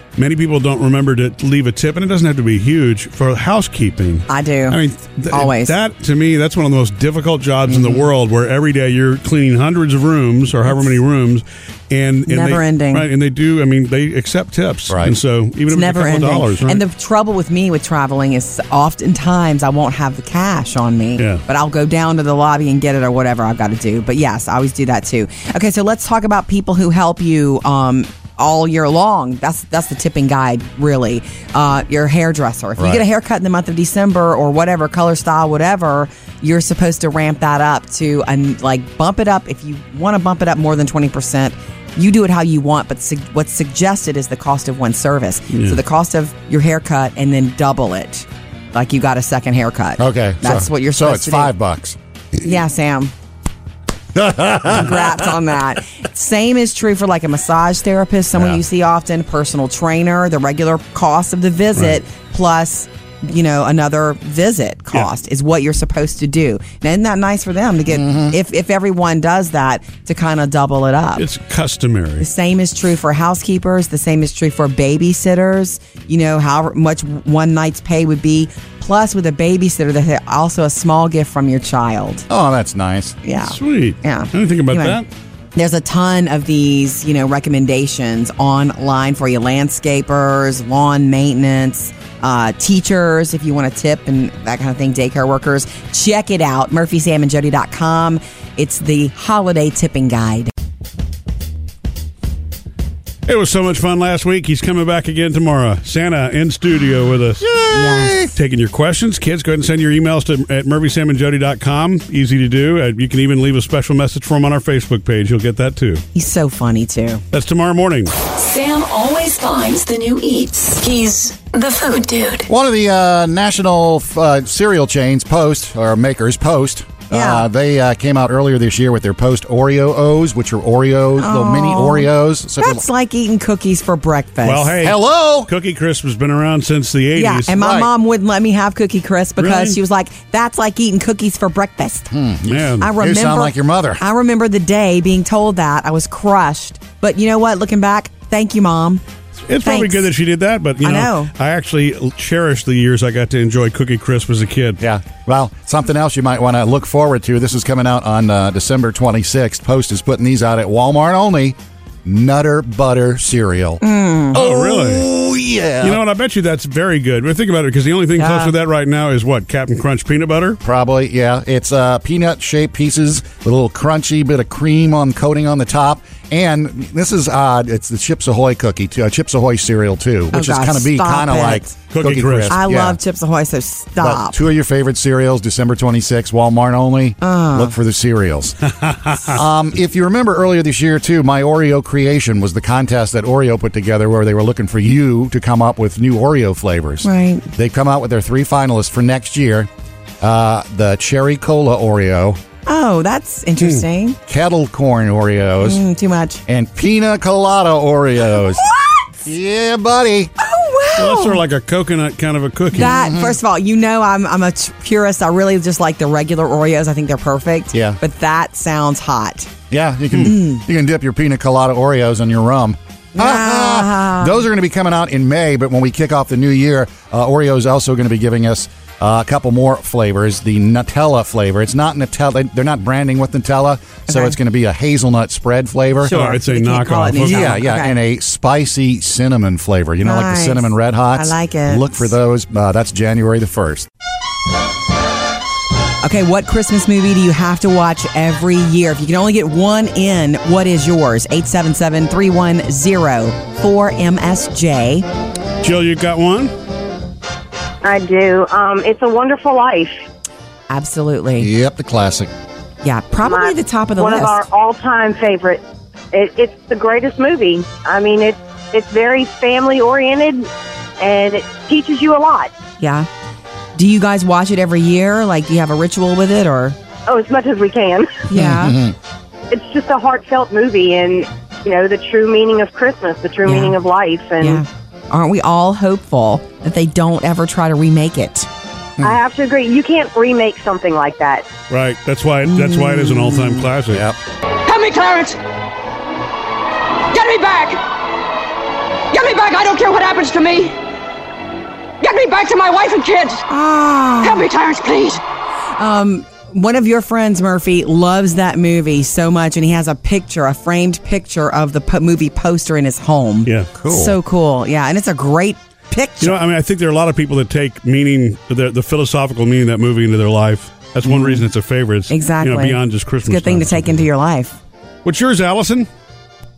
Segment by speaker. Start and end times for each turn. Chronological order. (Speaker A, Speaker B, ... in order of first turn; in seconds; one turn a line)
Speaker A: 0.1-16.8
Speaker B: 4.3-4.8
Speaker B: 5.3-5.7
Speaker C: 7.7-8.1
Speaker B: 12.3-13.1
Speaker C: 14.9-15.2
Speaker B: 15.7-51.5
Speaker C: 32.8-33.0
Speaker A: 45.5-45.8
Speaker C: 50.0-52.0
Speaker B: 52.4-53.1
Speaker C: 54.1-55.2
Speaker B: 54.6-71.2
Speaker C: 58.3-58.6
Speaker C: 67.9-68.3
Speaker A: 71.2-72.3
Speaker B: 72.2-82.3
Speaker C: 82.3-83.2
Speaker B: 83.2-85.0
Speaker A: 83.4-85.0
Speaker B: 85.5-100.5
Speaker A: 103.3-107.5
Speaker C: 107.4-108.3
Speaker B: 107.7-108.1
Speaker A: 108.3-116.0
Speaker B: 116.1-117.2
Speaker A: 117.3-118.1
Speaker D: 118.3-122.5
Speaker C: 122.5-132.8
Speaker B: 127.1-127.5
Speaker B: 131.2-134.8
Speaker A: 134.4-137.5
Speaker C: 134.8-135.5
Speaker B: 137.2-142.1
Speaker C: 137.5-137.9
Speaker A: 139.4-139.8
Speaker C: 142.1-144.0
Speaker A: 142.5-142.9
Speaker B: 142.8-149.0
Speaker A: 149.5-154.8
Speaker B: 149.6-150.1
Speaker B: 150.8-151.3
Speaker C: 154.8-163.8
Speaker B: 163.8-164.4
Speaker C: 164.3-166.0
Speaker A: 164.3-165.1
Speaker A: 165.8-170.6
Speaker B: 168.2-168.5
Speaker C: 170.6-183.0
Speaker B: 180.3-181.7
Speaker A: 181.9-182.6
Speaker B: 182.5-184.4
Speaker C: 184.0-188.6
Speaker B: 187.2-187.7
Speaker A: 188.9-189.2
Speaker C: 189.2-199.7
Speaker B: 197.0-197.5
Speaker C: 200.2-202.4
Speaker B: 202.7-204.2
Speaker C: 204.3-205.8
Speaker B: 205.6-206.4
Speaker C: 206.5-208.6
Speaker B: 208.6-209.1
Speaker C: 209.2-210.3
Speaker B: 210.4-211.4
Speaker A: 210.9-212.9
Speaker B: 212.7-219.5
Speaker C: 212.8-213.4
Speaker C: 217.7-218.0
Speaker C: 219.7-236.2
Speaker B: 220.2-220.6
Speaker B: 223.1-224.4
Speaker B: 234.1-234.3
Speaker B: 236.0-237.9
Speaker A: 236.1-237.6
Speaker C: 237.2-243.9
Speaker B: 240.0-242.1
Speaker B: 246.0-255.1
Speaker A: 255.6-256.5
Speaker E: 257.8-259.9
Speaker B: 260.7-261.5
Speaker C: 261.4-262.3
Speaker B: 262.8-264.4
Speaker E: 263.2-270.5
Speaker E: 271.0-272.5
Speaker B: 272.8-273.1
Speaker B: 273.8-276.8
Speaker E: 277.1-278.2
Speaker B: 278.3-278.8
Speaker C: 278.3-278.9
Speaker E: 279.5-284.6
Speaker B: 283.4-283.8
Speaker B: 284.4-288.5
Speaker E: 289.0-291.5
Speaker A: 291.7-294.1
Speaker B: 292.5-293.6
Speaker C: 293.9-294.1
Speaker F: 294.6-295.4
Speaker F: 297.1-297.9
Speaker F: 299.1-300.8
Speaker F: 302.0-303.4
Speaker B: 303.5-304.4
Speaker F: 304.2-305.2
Speaker B: 305.8-316.3
Speaker A: 313.4-313.7
Speaker C: 313.8-314.1
Speaker A: 316.2-324.1
Speaker B: 321.0-321.4
Speaker B: 322.1-324.5
Speaker A: 325.0-325.9